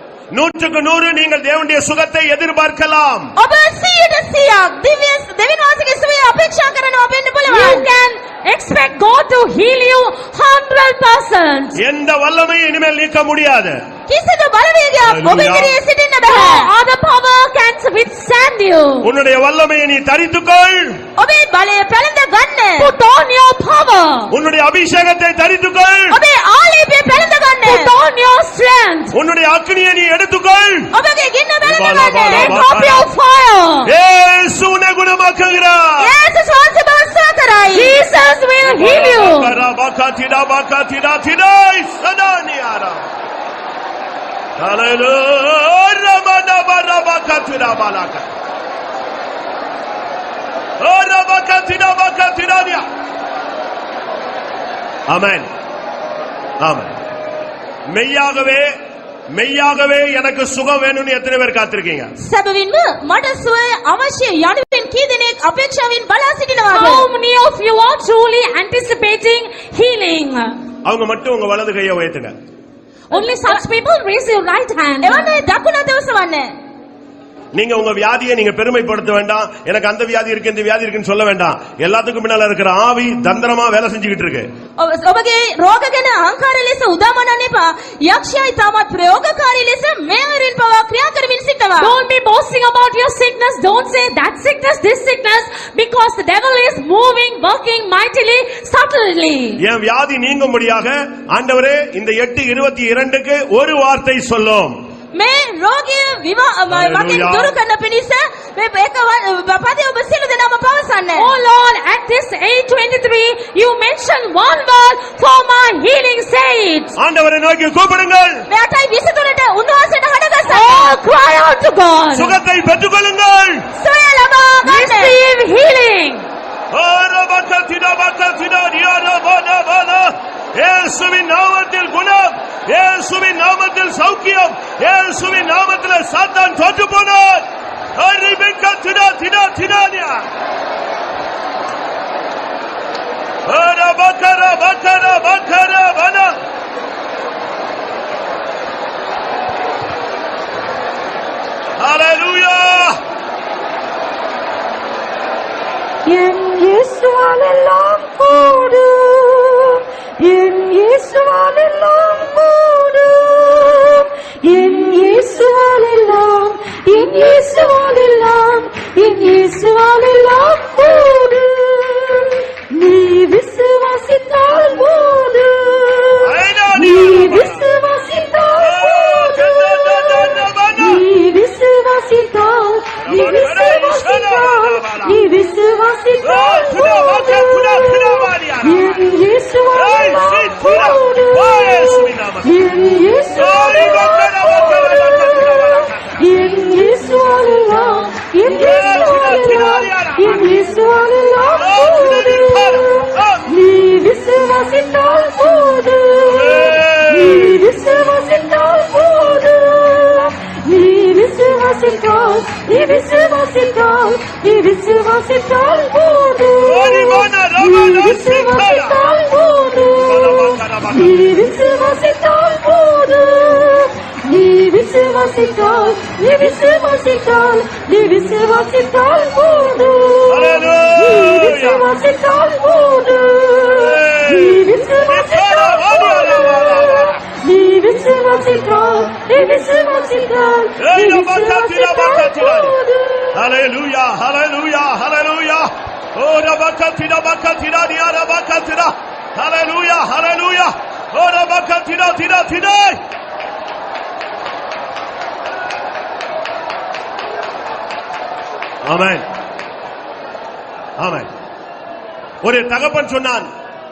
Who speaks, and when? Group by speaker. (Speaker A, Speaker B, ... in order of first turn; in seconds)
Speaker A: 0.3-3.3, 11.8-13.8, 15.0-15.8, 19.0-21.0, 24.3-26.2, 29.1-30.9, 31.6-33.1, 33.9-36.1, 38.6-43.1, 44.6-48.3, 50.8-52.9, 55.1-55.5, 56.6-57.0, 57.9-58.7, 59.3-62.1, 70.8-72.3, 77.5-84.5, 99.6-104.8, 106.7-107.6, 117.0-118.5, 122.1-123.7, 126.7-140.3, 143.5-146.4, 151.8-153.0, 176.2-177.7, 178.6-181.1, 183.0-185.2, 186.2-189.0, 189.7-192.6, 193.3-196.2, 198.5-200.5, 201.4-203.5, 206.2-207.7, 216.6-219.1, 220.0-221.3, 230.3-231.9, 233.7-237.2, 240.8-242.8, 243.3-253.0, 258.9-259.3, 261.0-261.3, 262.4-263.5
Speaker B: 3.4-7.9, 14.1-16.7, 21.2-22.9, 26.1-27.9, 30.9-32.6, 36.0-38.0, 62.2-67.1, 73.1-73.7, 75.0-76.5, 84.8-91.9, 105.2-111.3, 118.5-121.0, 123.8-125.2
Speaker C: 7.5-11.8, 16.2-19.1, 22.8-24.3, 27.6-29.1, 32.3-33.9, 37.7-39.6, 66.7-70.5, 73.1-75.3, 91.8-99.6, 111.2-116.9, 120.4-122.4, 124.6-126.3
Speaker D: 156.1-188.1, 188.6-202.9, 203.5-243.3